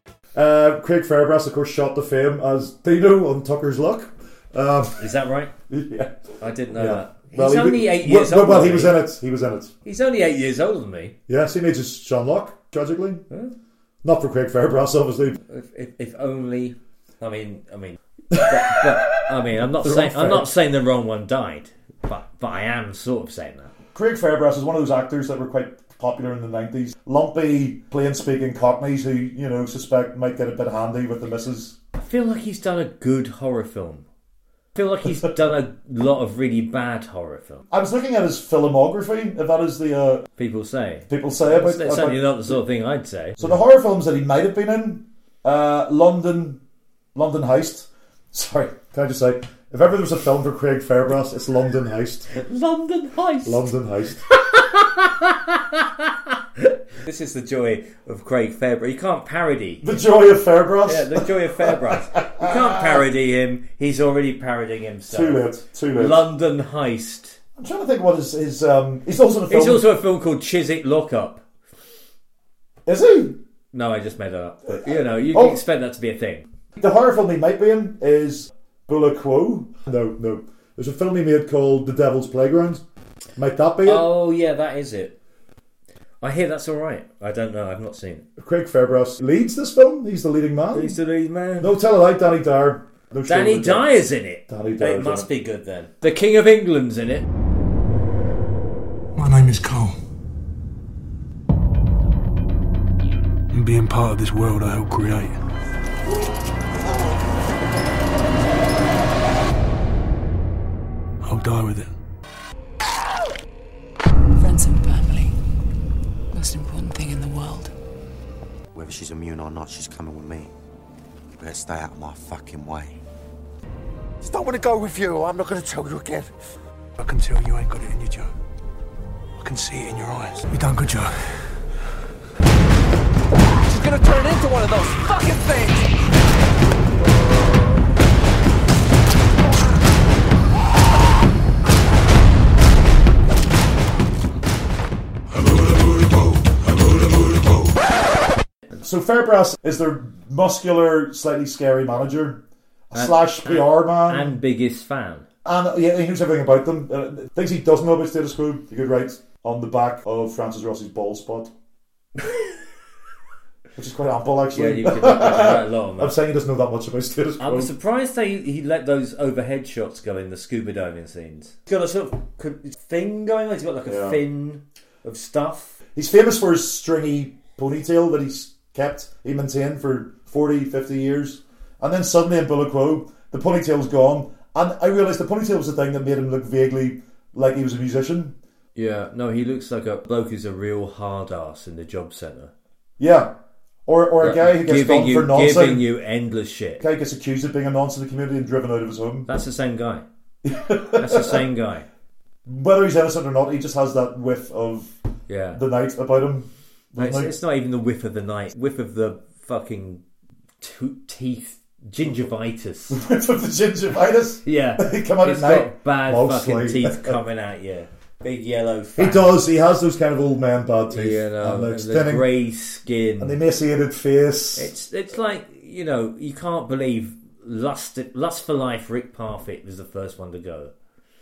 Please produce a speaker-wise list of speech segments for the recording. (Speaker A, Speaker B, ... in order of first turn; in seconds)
Speaker A: 0.3-5.0, 5.7-6.2, 6.7-9.7, 11.3-13.3, 14.0-15.4, 18.3-20.5, 23.9-31.8, 37.7-40.3, 41.1-42.6, 43.4-46.6, 47.1-52.3, 53.4-54.3, 59.8-63.0, 65.1-66.2, 67.6-69.9, 72.9-73.4, 74.7-75.6, 76.8-82.8, 83.4-84.1, 88.4-91.0, 91.6-93.9, 94.5-95.3, 148.8-154.4, 155.4-161.5, 163.8-167.7, 173.8-174.2, 175.9-188.4, 193.0-193.3, 193.9-195.8, 196.8-199.3, 200.4-201.4, 202.5-204.9, 205.5-207.3, 212.9-217.2, 219.0-222.3, 223.2-224.7
Speaker B: 5.0-5.5, 6.4-9.0, 9.8-11.2, 13.3-13.6, 15.5-23.7, 32.0-34.1, 34.8-37.6, 40.4-43.6, 52.3-53.6, 54.3-60.0, 60.9-67.4, 69.5-71.4, 73.7-76.5, 83.8-85.2, 86.2-88.2, 90.7-91.7, 93.3-97.3, 152.9-155.3, 164.6-166.2, 167.4-175.8, 188.8-192.5, 194.2-196.8, 199.3-200.1, 201.0-201.9, 205.3-205.6, 207.0-210.0, 210.6-213.0, 214.4-219.3, 220.9-223.4, 224.6-230.7
Speaker C: 99.2-100.0, 103.5-105.4, 111.2-111.9, 127.0-128.3, 129.4-131.6
Speaker D: 114.4-115.3, 116.3-117.7
Speaker E: 118.7-120.5, 121.4-123.0
Speaker F: 124.2-126.3, 133.7-135.9